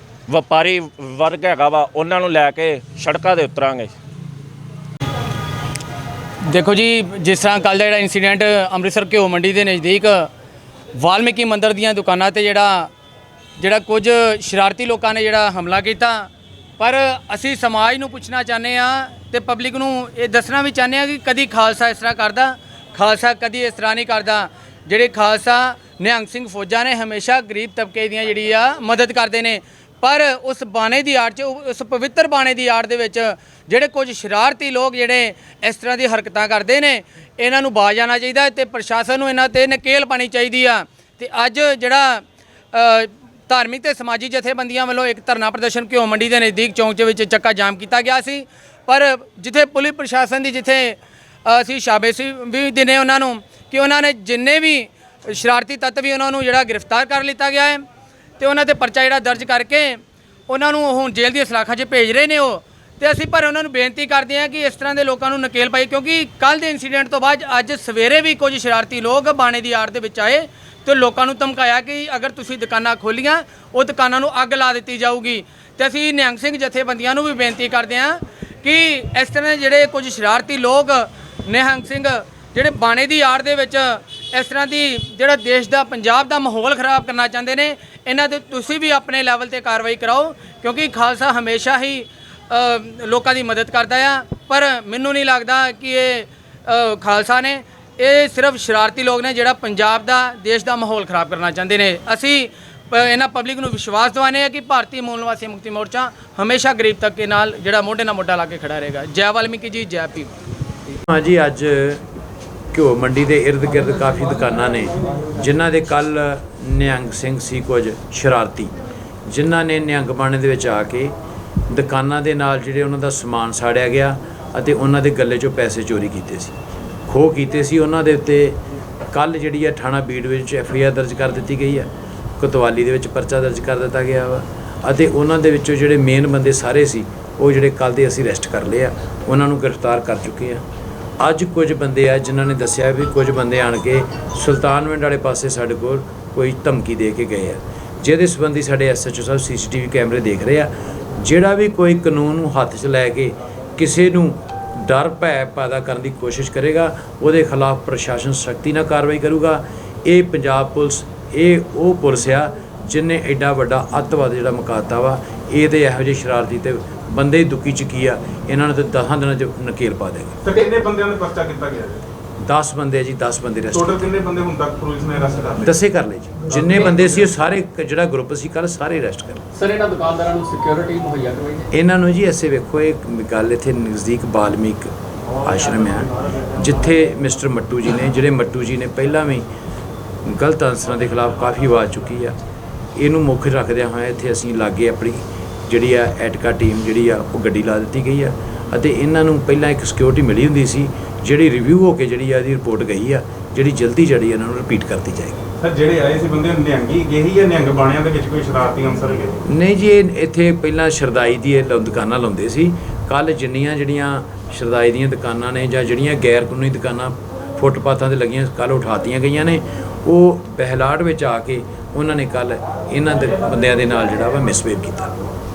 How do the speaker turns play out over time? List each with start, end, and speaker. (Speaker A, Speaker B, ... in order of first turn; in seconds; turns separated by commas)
Speaker A: 0.3-3.9, Speaker B: 6.5-10.3, Speaker B: 11.0-12.9, Speaker B: 13.6-57.8, Speaker B: 58.4-110.3, Speaker C: 111.0-112.0, Speaker C: 112.7-118.7, Speaker C: 119.3-121.1, Speaker C: 121.7-126.5, Speaker C: 127.1-128.6, Speaker C: 129.1-140.6, Speaker C: 141.2-170.4, Speaker D: 170.4-172.0, Speaker C: 172.4-174.0, Speaker D: 173.7-175.7, Speaker C: 175.6-179.4, Speaker D: 176.5-177.2, Speaker E: 179.6-181.7, Speaker C: 181.7-184.9, Speaker C: 185.4-189.4, Speaker C: 190.2-192.3, Speaker C: 192.9-205.4, Speaker D: 205.6-209.4, Speaker C: 209.4-225.1